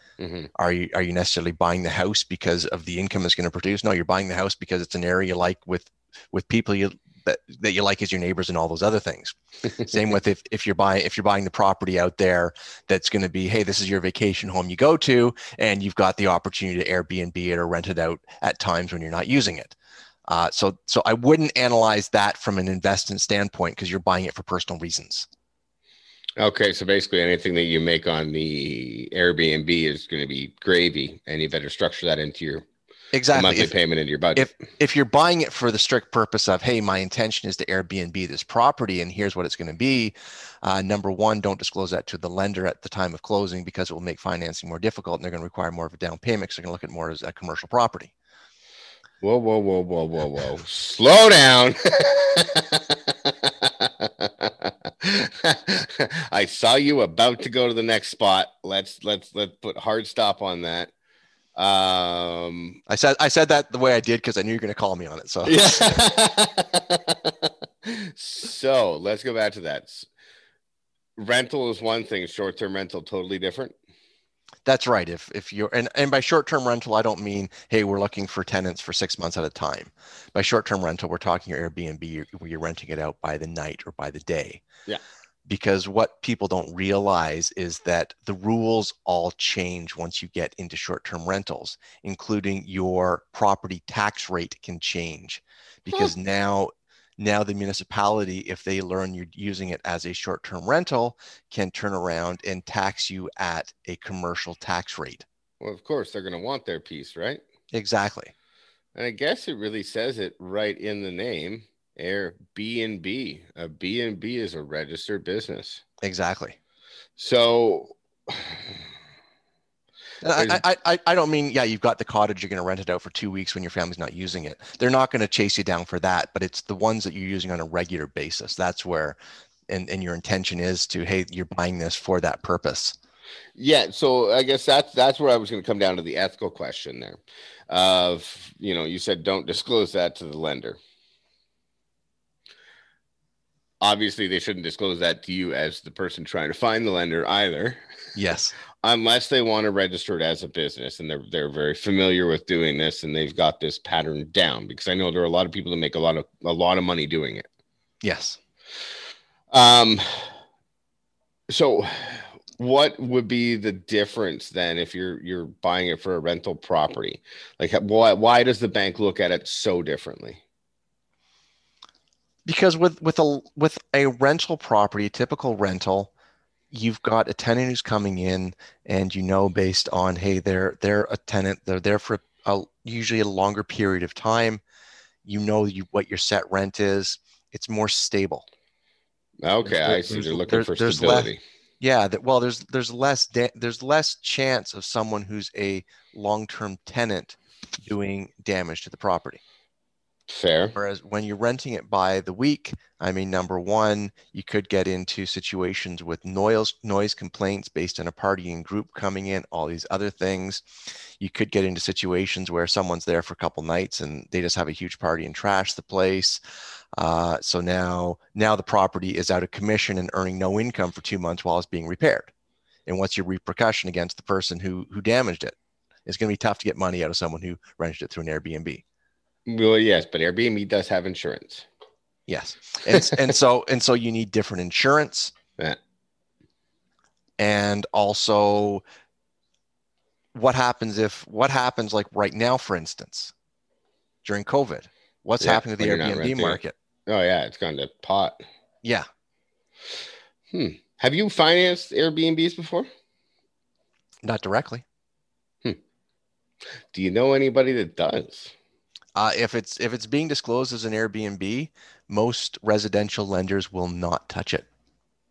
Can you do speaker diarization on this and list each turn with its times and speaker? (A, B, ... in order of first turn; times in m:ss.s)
0:00.2-0:00.5 A
0:00.6-0:19.8 B
0:20.3-0:25.3 B
0:26.4-0:32.6 A
0:33.1-0:33.7 B
0:33.3-0:34.6 A
0:34.4-0:48.1 B
0:49.2-1:00.9 A
1:01.6-1:02.8 A
1:02.9-1:06.0 B
1:05.5-1:10.1 A
1:11.2-1:13.8 A
1:14.6-1:24.6 B
1:25.5-1:45.2 B
1:45.6-1:47.4 A
1:47.7-1:48.3 B
1:49.0-1:55.8 A
1:56.0-1:56.6 B
1:57.2-1:58.8 A
2:00.2-2:09.2 B
2:00.4-2:00.6 A
2:09.7-2:13.0 B
2:13.6-2:20.8 A
2:23.8-2:27.8 A
2:28.2-2:28.5 B
2:28.8-2:37.5 A
2:38.0-2:38.4 B
2:39.5-2:40.3 A
2:41.5-2:50.4 A
2:52.5-2:56.1 B
2:56.7-3:04.6 B
3:05.2-3:08.4 B
3:09.4-3:11.4 A
3:09.6-3:19.4 B
3:20.3-3:20.8 A
3:20.8-3:30.6 B
3:31.2-3:36.4 B
3:37.0-3:42.3 B
3:42.9-3:45.6 B
3:46.1-3:48.8 B
3:49.5-3:51.7 A
3:52.3-3:55.3 B
3:57.4-3:58.8 B
4:00.3-4:03.3 B
4:04.2-4:06.8 B
4:05.4-4:08.4 A
4:10.5-4:12.9 A
4:14.2-4:14.8 B
4:16.9-4:18.5 A
4:19.2-4:24.7 B